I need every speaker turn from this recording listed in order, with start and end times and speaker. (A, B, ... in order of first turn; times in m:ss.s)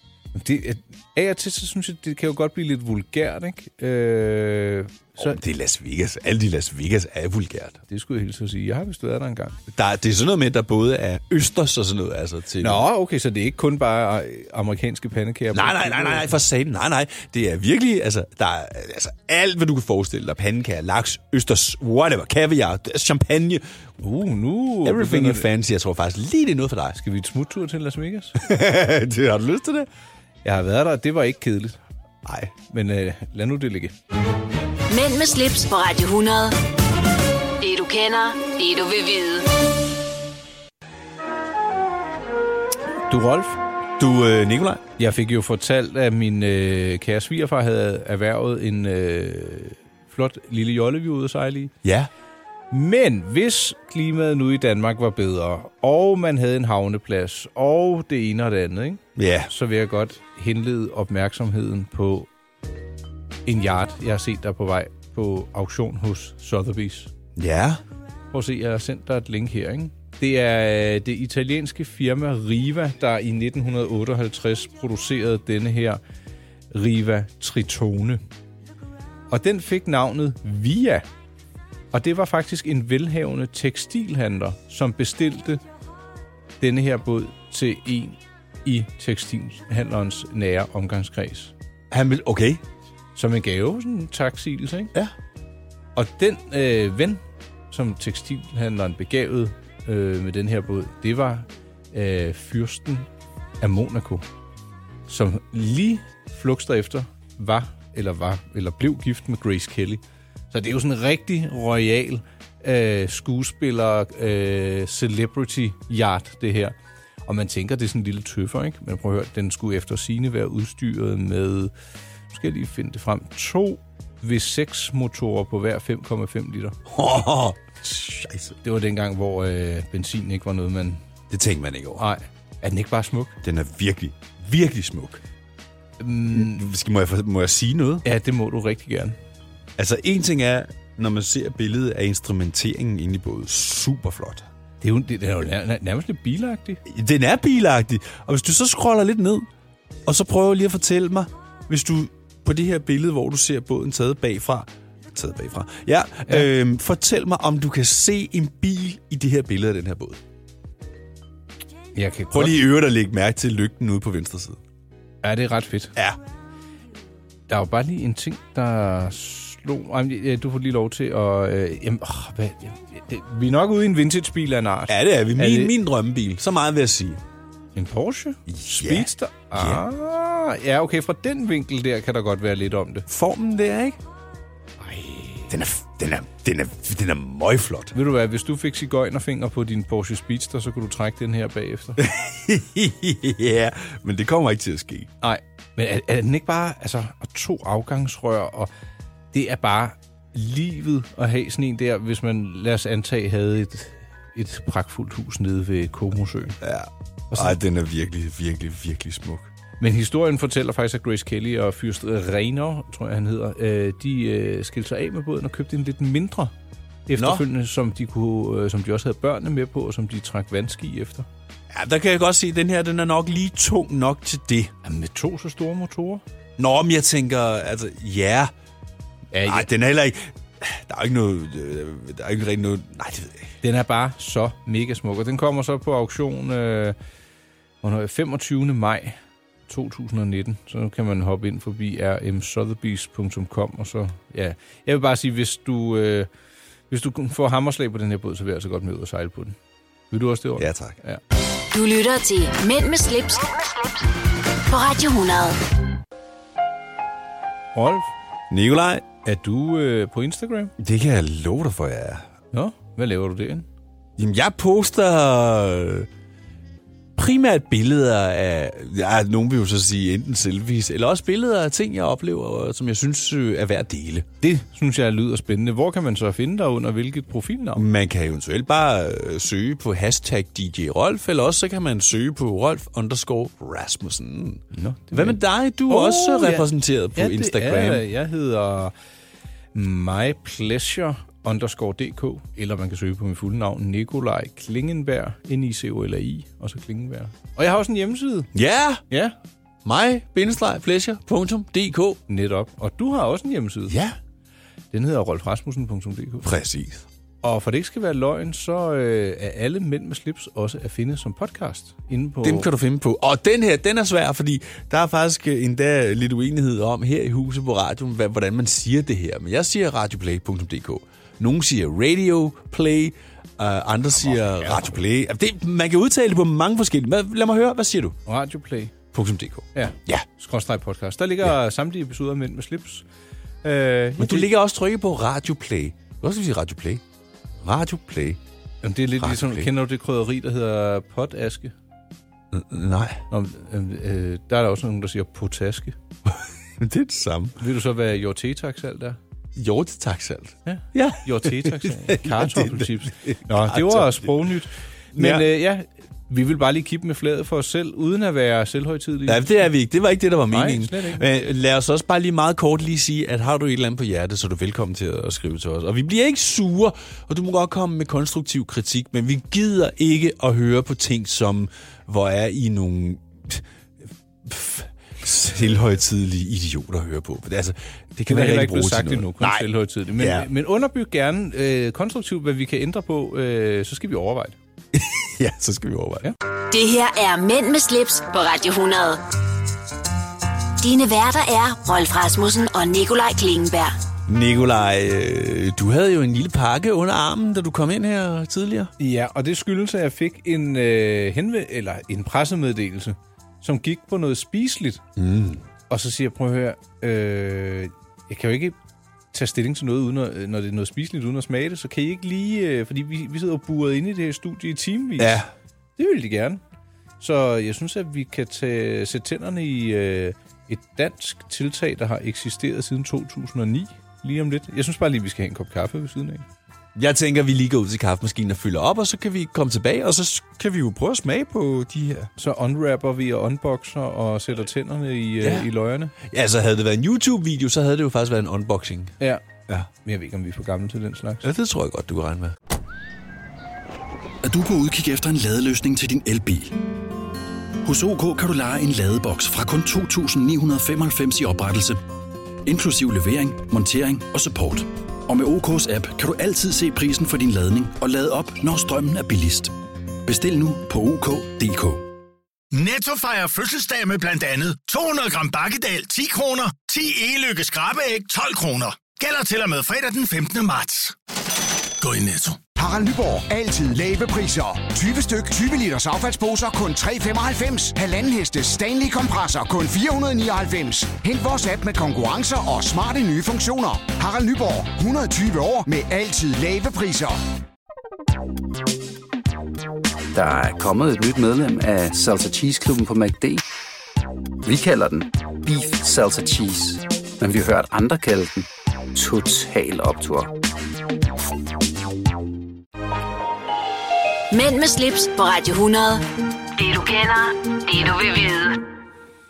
0:00.4-0:05.4 A
0:05.2-0:07.8 B
0:07.9-0:09.6 A
0:09.7-0:12.9 B
0:12.6-0:16.3 A
0:15.5-0:23.6 B
0:24.0-0:25.5 A
0:24.8-0:27.0 B
0:27.0-0:28.4 A
0:28.4-0:29.9 B
0:30.4-0:31.8 A
0:32.2-0:32.5 B
0:32.7-0:33.9 A
0:34.9-0:36.6 C
0:37.6-0:39.6 C
0:43.1-0:43.6 A
0:44.0-0:44.8 B
0:45.0-0:51.7 A
0:51.8-0:52.1 B
0:52.7-1:02.3 A
0:59.2-0:59.5 B
1:03.5-1:07.1 A
1:07.4-1:07.8 B
1:08.3-1:16.0 A
1:16.7-1:18.2 A
1:19.3-1:21.0 A
1:21.9-1:25.6 A
1:26.6-1:31.5 A
1:31.9-1:32.6 B
1:33.2-1:34.9 A
1:36.0-1:43.1 A
1:43.6-1:44.2 A
1:45.1-1:56.8 A
1:57.3-2:01.7 A
2:02.3-2:06.8 A
2:06.9-2:08.6 B
2:08.6-2:11.0 A
2:11.3-2:12.1 B
2:12.0-2:13.4 A
2:13.4-2:15.2 B
2:16.0-2:16.6 A
2:16.3-2:18.1 B
2:18.0-2:19.2 A
2:19.8-2:24.5 B
2:24.8-2:26.8 A
2:26.8-2:29.5 B
2:30.1-2:40.2 B
2:42.0-2:42.6 A
2:42.3-2:44.6 B
2:45.2-2:45.9 A
2:47.5-2:55.7 A
2:54.9-2:57.2 B
2:57.8-3:03.1 A
2:58.5-2:59.8 B
3:03.1-3:04.0 B
3:04.8-3:05.5 A
3:05.5-3:07.9 B
3:07.9-3:12.0 A
3:12.0-3:15.1 B
3:15.2-3:18.7 A
3:19.3-3:26.6 A
3:26.6-3:29.5 B
3:27.3-3:27.6 A
3:29.8-3:36.5 A
3:37.1-3:41.3 A
3:37.2-3:37.4 B
3:41.7-3:44.7 B
3:44.8-3:46.2 A
3:46.6-3:48.5 B
3:49.3-3:49.7 A
3:49.4-3:53.5 B
3:53.6-3:57.0 A
3:57.8-3:59.2 A
3:59.7-4:06.3 A
4:06.9-4:09.6 A
4:10.1-4:11.2 A
4:10.6-4:11.0 B
4:11.7-4:14.0 C
4:14.7-4:15.6 C
4:17.8-4:18.1 A
4:18.5-4:19.1 B
4:19.2-4:20.7 A
4:20.8-4:22.3 B
4:22.5-4:23.7 A
4:24.2-4:26.1 B
4:27.2-4:34.3 B
4:34.4-4:37.8 A
4:37.8-4:48.0 B
4:44.7-4:48.9 A
4:49.7-4:58.5 A
4:58.5-4:59.0 B
4:59.8-5:02.2 B
5:02.3-5:04.0 A
5:03.9-5:04.2 B
5:04.9-5:06.5 A
5:06.4-5:07.0 B
5:07.4-5:12.7 A
5:12.4-5:28.2 B
5:24.3-5:25.0 A
5:28.3-5:28.9 A
5:29.1-5:30.3 B
5:29.8-5:33.0 A
5:33.6-5:34.5 A
5:34.2-5:37.0 B
5:37.6-5:38.4 B
5:38.8-5:41.7 A
5:39.2-5:39.7 B
5:42.5-5:43.2 B
5:43.3-5:46.0 A
5:46.3-5:47.6 B
5:47.6-5:49.2 A
5:49.6-5:54.4 B
5:50.7-5:59.7 A
5:55.2-5:55.5 B
5:59.3-6:13.6 B
6:00.5-6:01.2 A
6:14.4-6:20.5 B
6:18.3-6:24.6 A
6:24.9-6:26.3 B
6:26.7-6:29.2 C
6:30.8-6:34.0 C
6:34.3-6:38.9 B
6:39.0-6:45.0 A
6:45.2-6:45.6 B
6:45.9-6:48.8 A
6:49.3-6:55.4 A
6:55.2-6:55.5 B
6:56.0-6:56.6 A
6:57.2-7:06.4 A
7:07.0-7:12.3 B
7:12.4-7:16.1 A
7:15.4-7:19.2 B
7:19.2-7:21.5 A
7:21.4-7:22.6 B
7:24.4-7:26.8 D
7:27.8-7:32.0 D
7:32.6-7:39.7 D
7:40.2-7:42.1 D
7:42.7-7:51.2 E
7:52.0-7:52.6 E
7:52.8-8:07.4 F
8:10.3-8:13.6 G
8:14.6-8:20.5 G
8:24.5-8:28.8 C